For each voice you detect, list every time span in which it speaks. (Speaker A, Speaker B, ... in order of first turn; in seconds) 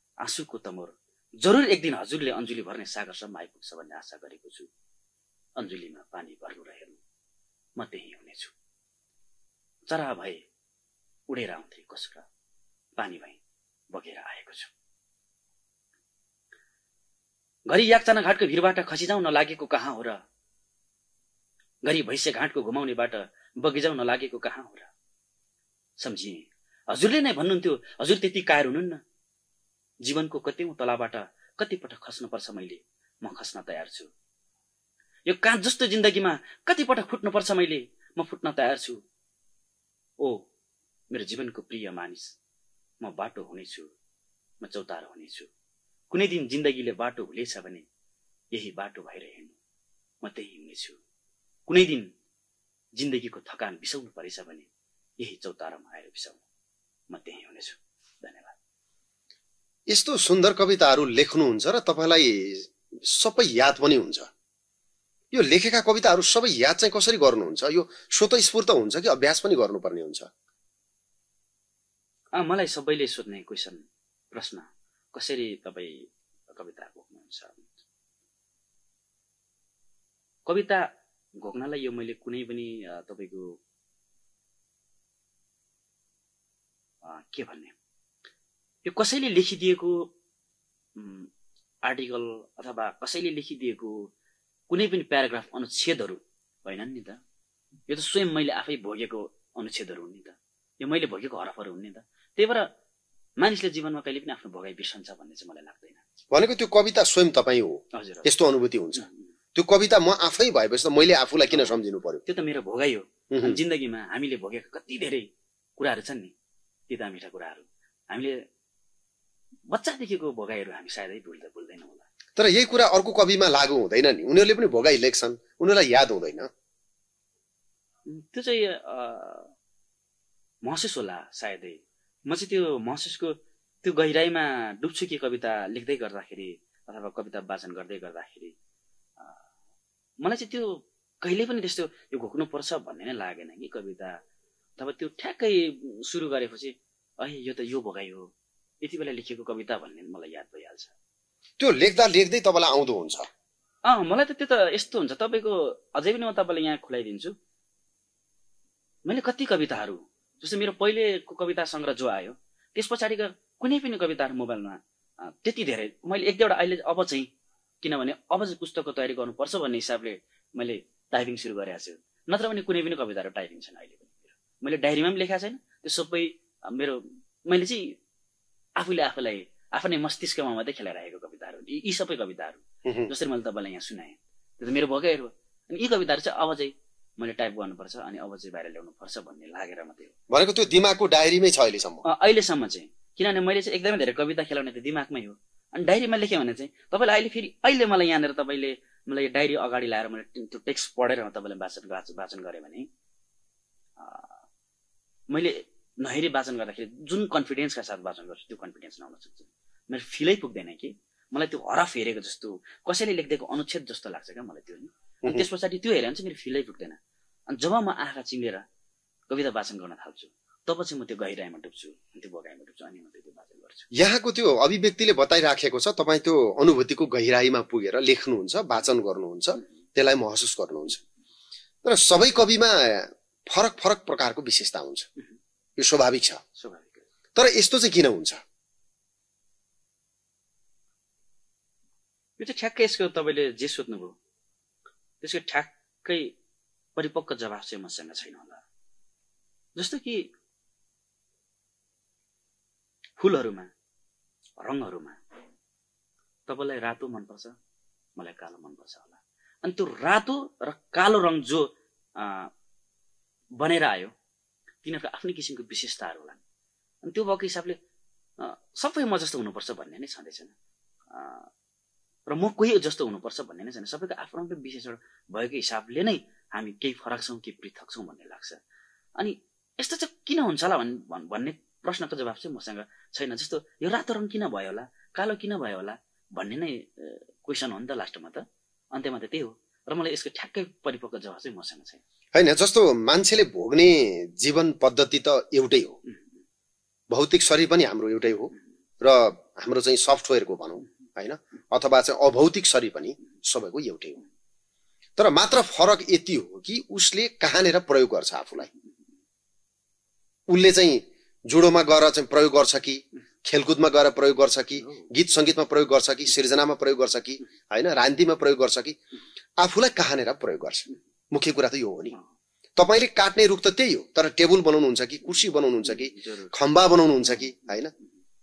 Speaker A: 0.2-4.7, 5.6-7.0, 7.8-8.5, 9.9-10.4, 11.3-12.3, 13.0-13.4, 13.9-14.7, 17.7-20.2, 21.8-24.9, 26.0-29.0, 30.0-34.1, 35.2-39.0, 40.2-40.4, 41.1-42.4, 43.0-43.9, 44.6-45.5, 46.1-47.9, 48.5-49.5, 50.2-51.0, 51.7-52.1, 53.0-54.7, 55.2-56.4, 57.1-58.5, 72.3-73.8, 74.3-77.7, 80.5-83.6, 87.0-87.8, 88.8-90.1, 91.0-91.3, 91.8-94.1, 94.7-97.2, 97.9-102.7, 103.4-106.0, 107.9-108.3, 112.2-116.3, 116.9-118.4, 119.7-122.0, 128.1-129.5, 130.6-138.5, 140.2-144.2, 144.8-150.9, 153.8-157.3, 159.0-167.3, 167.8-178.0, 178.8-190.1, 192.0-202.9, 204.0-204.4, 205.3-217.0, 217.5-218.6, 219.3-223.9, 236.6-237.0, 242.4-244.2, 245.2-246.3, 246.9-248.6, 249.8-250.3, 253.2-253.7, 254.6-255.2, 256.5-257.6, 258.2-262.5, 263.6-264.1, 264.8-266.4, 267.0-267.8, 268.4-270.5, 271.1-271.5, 272.3-278.6, 279.2-292.0, 326.1-326.5
Speaker B: 59.9-64.3, 65.3-70.3, 106.3-112.2, 113.3-113.6, 122.3-126.5, 151.6-153.3, 182.8-183.1, 190.3-192.0, 223.9-231.0, 231.8-235.1, 235.8-236.4, 237.3-238.4, 292.3-296.0, 297.1-304.2, 305.2-308.7, 310.5-319.0, 319.6-322.2, 322.8-327.9